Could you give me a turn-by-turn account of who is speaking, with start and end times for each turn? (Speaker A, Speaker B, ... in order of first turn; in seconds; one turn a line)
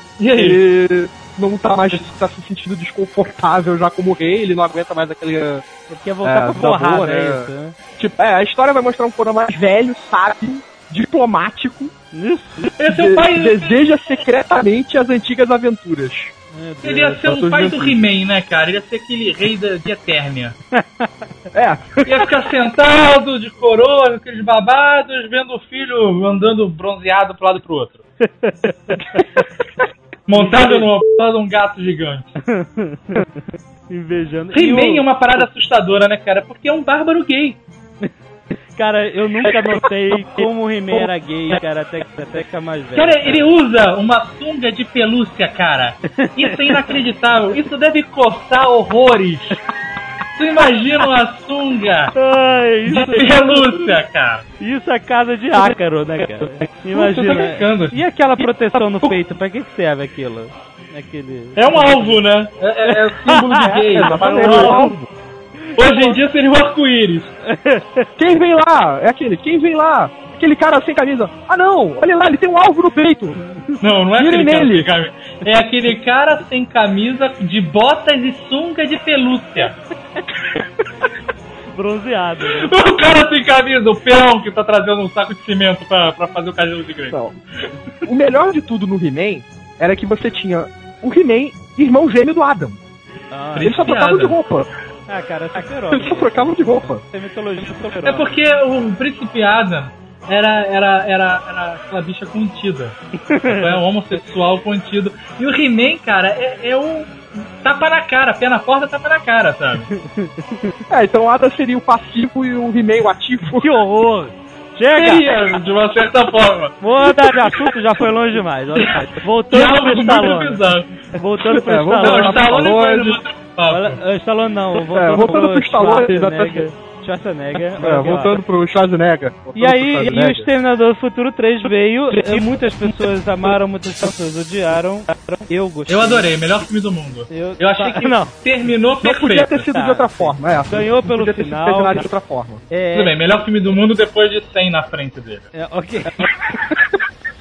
Speaker A: 0.2-0.6
Speaker B: 0.3-5.6
Speaker C: 5.9-7.8
Speaker B: 6.2-11.9
Speaker C: 12.1-12.8
Speaker A: 12.8-13.9
Speaker B: 12.9-16.3
Speaker C: 16.5-17.2
Speaker A: 16.8-20.6
Speaker B: 17.2-18.0
Speaker C: 20.8-21.1
Speaker B: 21.5-22.3
Speaker A: 22.1-28.0
Speaker C: 28.2-29.4
Speaker A: 30.3-32.4
Speaker C: 30.3-30.9
Speaker C: 32.4-33.3
Speaker C: 33.9-35.1
Speaker A: 34.5-37.6
Speaker C: 38.8-43.5
Speaker A: 42.9-49.6
Speaker C: 46.2-46.7
Speaker A: 50.4-52.1
Speaker C: 52.1-53.6
Speaker A: 52.9-54.5
Speaker C: 54.6-62.2
Speaker A: 56.9-58.0
Speaker A: 61.5-64.8
Speaker C: 62.9-65.0
Speaker B: 63.6-65.1
Speaker A: 65.8-67.4
Speaker C: 65.8-66.2
Speaker C: 67.5-68.1
Speaker B: 68.2-73.4
Speaker C: 73.5-73.8
Speaker A: 73.8-79.8
Speaker B: 74.2-74.9
Speaker C: 81.7-82.7
Speaker A: 82.5-87.2
Speaker B: 88.0-92.8
Speaker C: 93.3-93.8
Speaker A: 93.5-94.4
Speaker B: 93.6-94.7
Speaker C: 95.1-98.3
Speaker B: 95.9-97.0
Speaker A: 98.0-109.9
Speaker C: 103.3-103.8
Speaker C: 109.9-110.7
Speaker B: 110.9-113.7
Speaker C: 113.5-115.3
Speaker A: 115.0-116.8
Speaker C: 116.8-122.5
Speaker A: 119.5-121.0
Speaker B: 121.5-123.2
Speaker A: 122.0-124.0
Speaker C: 123.7-128.4
Speaker B: 124.9-126.7
Speaker B: 127.8-130.5
Speaker C: 129.6-136.3
Speaker B: 132.1-132.6
Speaker A: 135.9-139.6
Speaker C: 137.3-138.3
Speaker B: 139.0-142.7
Speaker C: 139.7-142.1
Speaker C: 142.7-143.1
Speaker A: 142.9-145.5
Speaker C: 145.5-146.3
Speaker B: 146.2-146.9